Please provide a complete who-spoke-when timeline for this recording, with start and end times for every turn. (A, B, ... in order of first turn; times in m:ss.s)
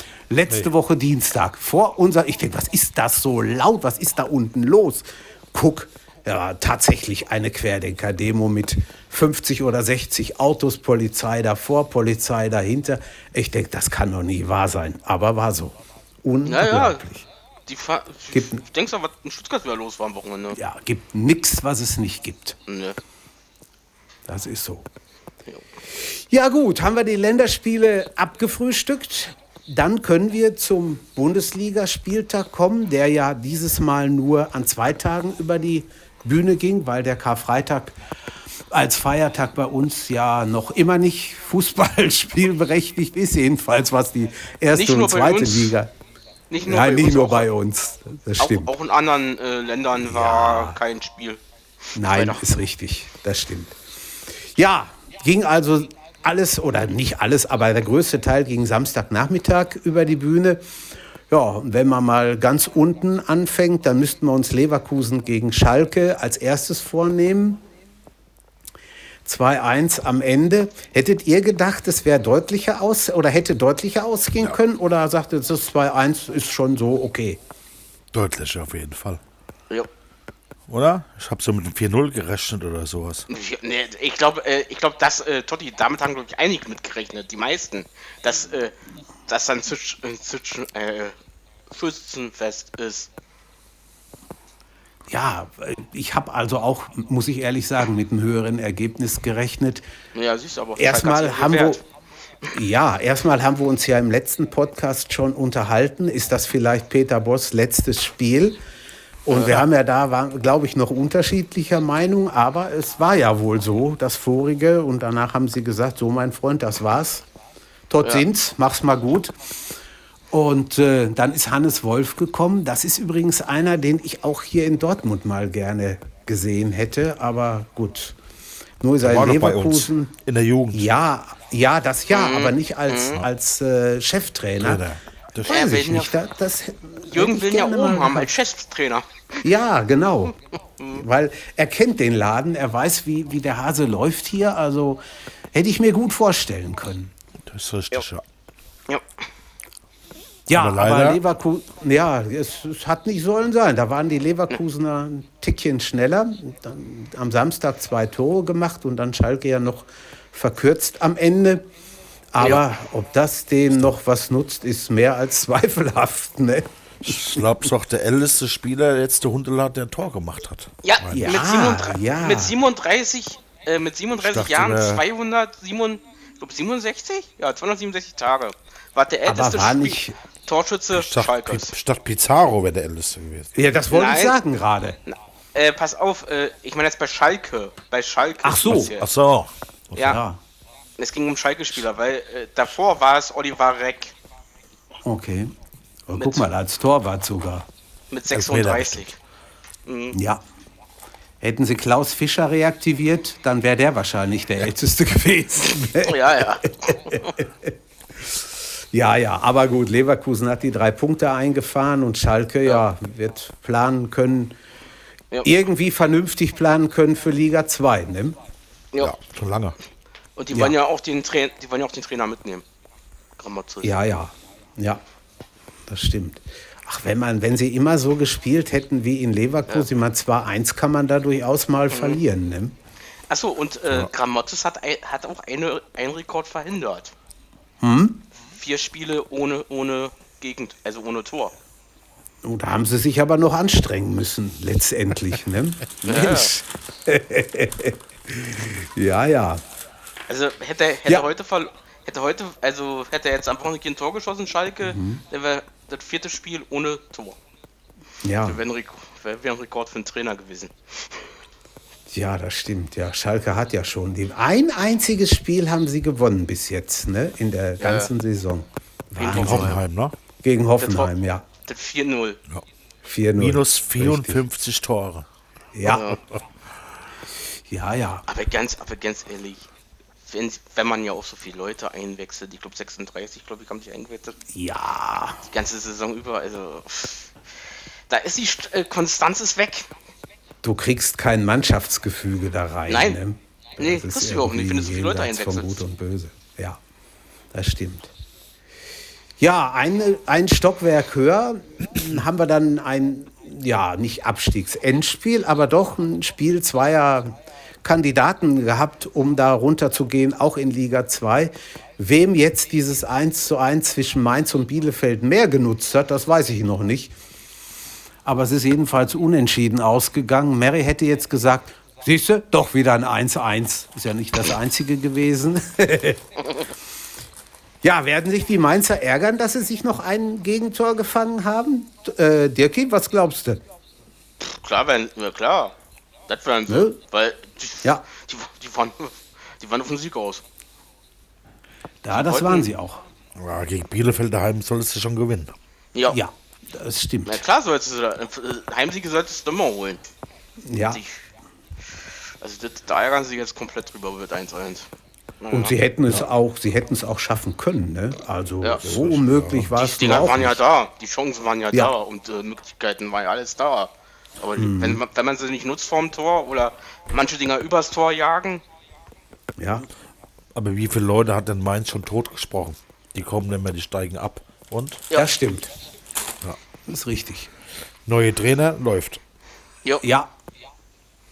0:00.3-0:17.3 A
0:16.4-0:17.0 B
0:17.7-0:20.6 B
0:18.3-0:18.6 A
0:20.5-0:22.6 A
0:22.7-0:23.0 B
0:24.3-0:24.9 A
0:25.9-0:38.0 A
0:38.7-0:45.9 A
0:44.7-0:45.8 B
0:46.5-0:47.5 B
0:46.6-0:48.7 A
0:48.4-0:51.4 B
0:50.0-0:50.8 A
0:52.0-0:53.8 A
0:52.0-0:52.5 B
0:54.4-1:00.6 A
1:01.3-1:07.6 A
1:09.2-1:17.4 A
1:18.1-1:19.2 C
1:20.7-1:23.3 C
1:23.3-1:28.8 B
1:29.3-1:31.2 B
1:31.7-1:33.1 B
1:35.1-1:39.8 A
1:40.2-1:41.8 B
1:40.8-1:41.8 A
1:42.5-1:48.6 A
1:49.3-1:57.2 A
1:49.3-1:49.7 B
1:57.9-1:59.6 A
2:00.3-2:08.2 A
2:08.8-2:10.2 A
2:09.0-2:10.9 C
2:10.7-2:14.8 A
2:12.1-2:13.2 B
2:14.6-2:15.6 C
2:15.4-2:18.4 A
2:15.5-2:16.2 B
2:17.1-2:19.1 B
2:19.4-2:20.4 A
2:20.8-2:21.0 B
2:21.0-2:25.0 A
2:25.5-2:27.1 A
2:27.5-2:28.2 C
2:30.5-2:41.7 A
2:30.5-2:31.2 C
2:42.3-2:46.7 A
2:47.0-2:51.4 C
2:50.8-3:01.8 B
2:51.2-2:52.6 A
2:54.2-2:55.0 C
2:59.2-3:00.2 A
3:00.9-3:03.5 C
3:03.5-3:05.0 A
3:03.9-3:04.4 B
3:05.1-3:09.1 B
3:08.4-3:08.9 A
3:08.7-3:10.2 C
3:10.0-3:10.4 A
3:11.0-3:14.1 B
3:15.0-3:15.5 A
3:16.1-3:17.7 A
3:16.2-3:16.5 B
3:18.1-3:19.2 B
3:18.3-3:19.1 C
3:19.9-3:20.2 B
3:20.1-3:20.4 A
3:21.4-3:27.7 A
3:25.9-3:27.4 B
3:28.9-3:34.6 A
3:35.4-3:38.4 A
3:39.0-3:39.8 C
3:40.4-3:42.6 B
3:40.5-3:40.8 A
3:43.4-3:44.0 B
3:43.8-3:45.0 A
3:45.9-3:52.8 A
3:51.9-3:52.2 B
3:53.3-3:57.2 B
3:57.8-3:58.2 A
3:58.5-4:01.5 B
4:02.4-4:09.6 A
4:06.0-4:06.6 B
4:10.3-4:17.4 B
4:14.8-4:15.2 A
4:18.2-4:18.6 A
4:18.4-4:21.3 B
4:22.1-4:29.8 A
4:27.8-4:28.1 B
4:29.2-4:29.8 B
4:29.3-4:30.2 C
4:30.4-4:31.5 A
4:30.8-4:31.1 B
4:31.6-4:32.4 B
4:33.0-4:34.4 A
4:33.4-4:35.3 C
4:35.7-4:36.2 A
4:35.8-4:36.2 B
4:37.7-4:38.2 A
4:38.3-4:39.7 B
4:40.3-4:44.4 B
4:44.5-4:45.4 A
4:45.5-4:47.3 B
4:48.1-4:49.9 B
4:50.6-4:56.8 A
4:52.9-4:53.2 B
4:53.8-4:55.8 B
4:57.5-4:58.1 A
4:59.4-5:17.1 A
5:18.2-5:26.3 A
5:27.8-5:33.6 A
5:34.4-5:35.8 B
5:36.3-5:40.4 B
5:36.7-5:37.0 A
5:42.0-5:43.0 A
5:42.1-5:42.7 B
5:43.4-5:45.5 C
5:45.9-5:46.2 B
5:46.1-5:47.4 A
5:47.2-5:50.0 B
5:50.6-5:51.0 A
5:50.9-5:51.2 B
5:52.4-5:54.9 B
5:55.4-5:55.8 B
5:55.5-6:00.6 A
5:58.8-6:00.4 C
5:59.8-6:08.6 B
6:04.6-6:05.0 A
6:09.6-6:09.9 A
6:10.6-6:15.0 C
6:15.1-6:15.7 A
6:16.9-6:17.5 A
6:18.1-6:19.2 C
6:20.0-6:20.3 A